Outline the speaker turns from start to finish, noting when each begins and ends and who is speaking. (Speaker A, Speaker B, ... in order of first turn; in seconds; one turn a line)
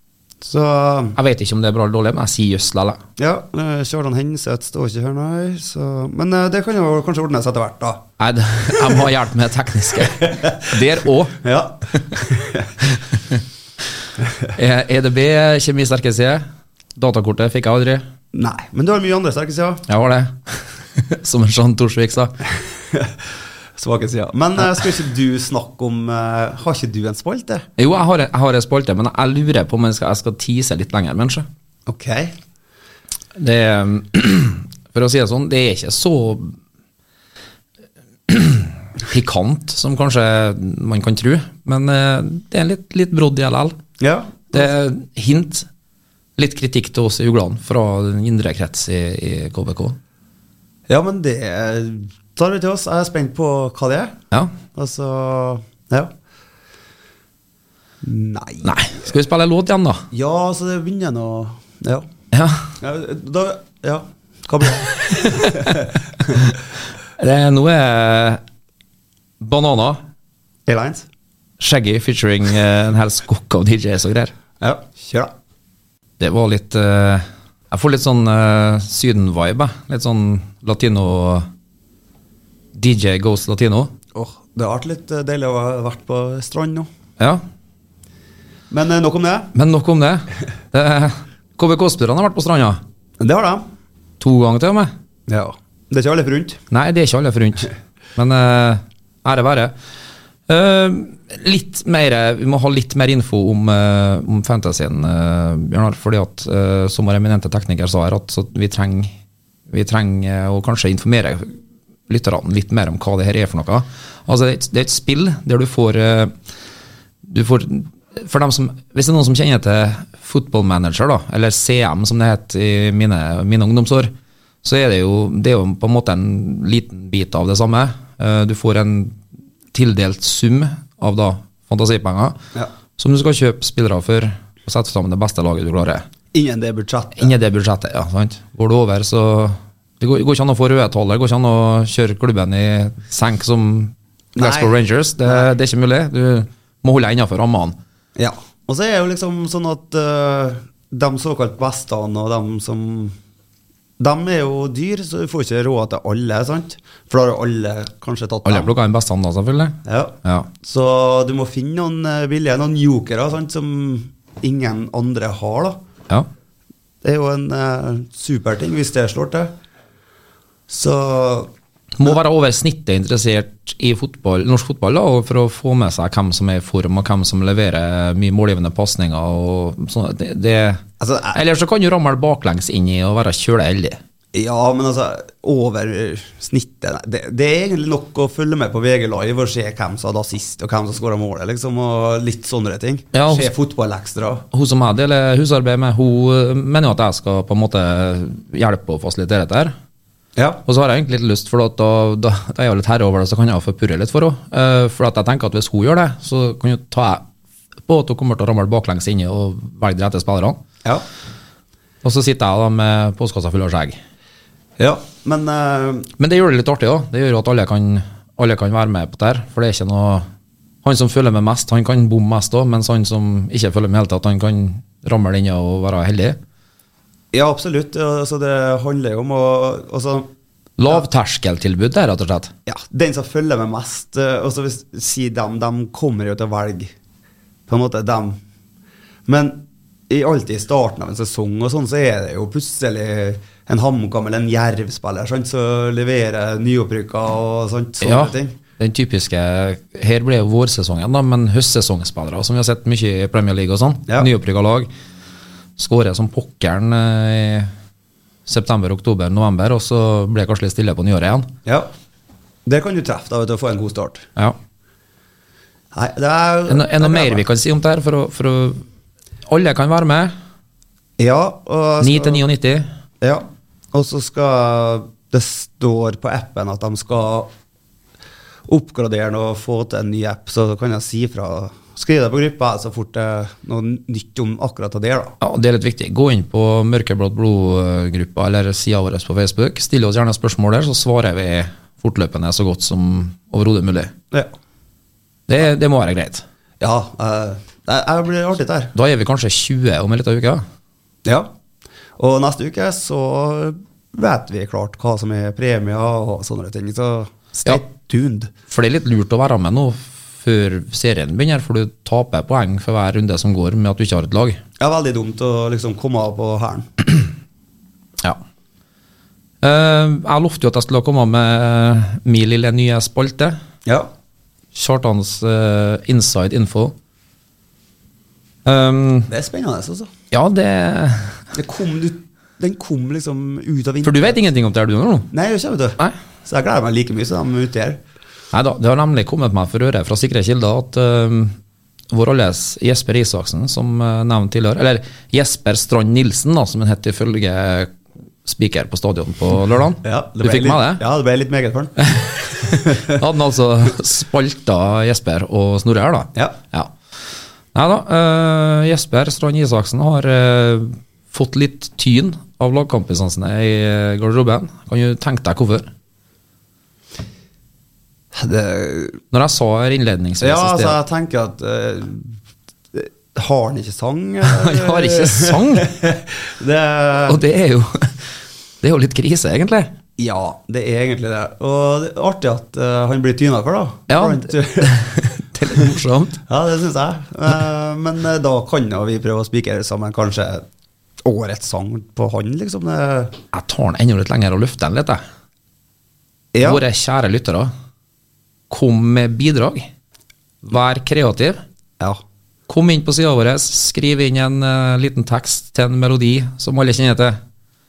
Speaker A: 0.4-1.2
Speaker B: 1.1-3.0
Speaker A: 3.2-8.0
Speaker B: 8.2-11.4
Speaker A: 10.2-10.7
Speaker A: 11.4-12.7
Speaker B: 14.5-16.4
Speaker B: 16.9-18.0
Speaker A: 18.3-19.9
Speaker B: 19.9-22.3
Speaker A: 22.9-23.1
Speaker A: 23.8-27.7
Speaker B: 27.8-31.4
Speaker A: 31.9-32.4
Speaker B: 33.4-36.5
Speaker B: 38.3-43.8
Speaker A: 44.0-44.6
Speaker B: 44.5-45.7
Speaker B: 46.4-50.0
Speaker A: 50.9-54.1
Speaker A: 54.7-56.1
Speaker A: 58.0-59.1
Speaker B: 58.6-60.0
Speaker A: 60.1-62.0
Speaker B: 62.3-62.7
Speaker A: 62.8-66.4
Speaker B: 65.0-66.5
Speaker B: 67.2-68.4
Speaker B: 69.4-70.0
Speaker A: 70.7-71.0
Speaker B: 71.6-74.3
Speaker A: 74.6-75.3
Speaker B: 76.2-81.5
Speaker B: 82.7-83.9
Speaker A: 84.1-86.9
Speaker A: 88.7-89.5
Speaker B: 89.5-92.8
Speaker A: 93.2-93.7
Speaker B: 94.2-94.9
Speaker A: 95.3-96.6
Speaker B: 96.7-99.7
Speaker B: 100.5-109.1
Speaker B: 109.7-111.5
Speaker B: 112.1-116.3
Speaker B: 117.2-124.1
Speaker B: 124.6-129.2
Speaker B: 129.7-132.4
Speaker B: 133.0-136.0
Speaker A: 136.3-137.3
Speaker B: 137.2-147.8
Speaker A: 144.3-145.5
Speaker A: 148.2-153.2
Speaker A: 154.0-158.7
Speaker B: 158.4-160.5
Speaker A: 159.8-165.8
Speaker A: 167.0-169.5
Speaker A: 170.7-171.5
Speaker B: 172.0-184.0
Speaker A: 181.0-181.4
Speaker A: 184.3-194.4
Speaker B: 193.1-193.5
Speaker B: 194.5-199.7
Speaker A: 200.3-200.6
Speaker B: 200.7-207.2
Speaker B: 207.9-210.6
Speaker B: 212.0-214.0
Speaker A: 214.8-216.1
Speaker B: 216.2-220.2
Speaker B: 220.8-226.4
Speaker A: 227.3-230.3
Speaker B: 230.8-232.5
Speaker A: 232.7-236.9
Speaker A: 237.7-238.4
Speaker A: 239.3-248.6
Speaker B: 248.0-254.9
Speaker B: 255.8-257.7
Speaker B: 258.4-261.5
Speaker A: 262.6-264.2
Speaker A: 265.9-267.4
Speaker B: 266.7-268.8
Speaker B: 269.5-270.3
Speaker A: 271.2-272.4
Speaker B: 272.0-272.9
Speaker A: 273.2-277.5
Speaker A: 278.7-285.4
Speaker B: 285.4-294.1
Speaker B: 295.5-296.4
Speaker A: 296.8-298.9
Speaker B: 298.9-300.6
Speaker A: 301.2-301.5
Speaker A: 302.2-308.5
Speaker B: 308.7-314.6
Speaker A: 314.8-317.0
Speaker B: 319.6-323.6
Speaker B: 324.7-326.9
Speaker B: 328.6-329.3
Speaker A: 329.3-330.1
Speaker B: 330.3-331.4
Speaker A: 331.5-334.4
Speaker B: 334.0-335.3
Speaker A: 335.3-338.0
Speaker B: 338.5-341.6
Speaker B: 342.1-347.9
Speaker B: 348.4-351.0
Speaker A: 350.0-353.2
Speaker B: 352.1-356.9
Speaker B: 357.7-365.9
Speaker A: 368.3-369.2
Speaker B: 369.3-371.0
Speaker A: 370.4-372.4
Speaker A: 372.9-377.4
Speaker B: 374.4-375.9
Speaker B: 377.2-378.2
Speaker B: 378.8-379.9
Speaker A: 380.2-385.0
Speaker B: 384.1-386.4
Speaker A: 386.5-390.6
Speaker A: 391.2-393.4
Speaker B: 393.5-395.2
Speaker A: 396.5-396.8
Speaker B: 396.6-397.7
Speaker B: 398.7-399.9
Speaker B: 400.6-401.6
Speaker B: 402.7-407.4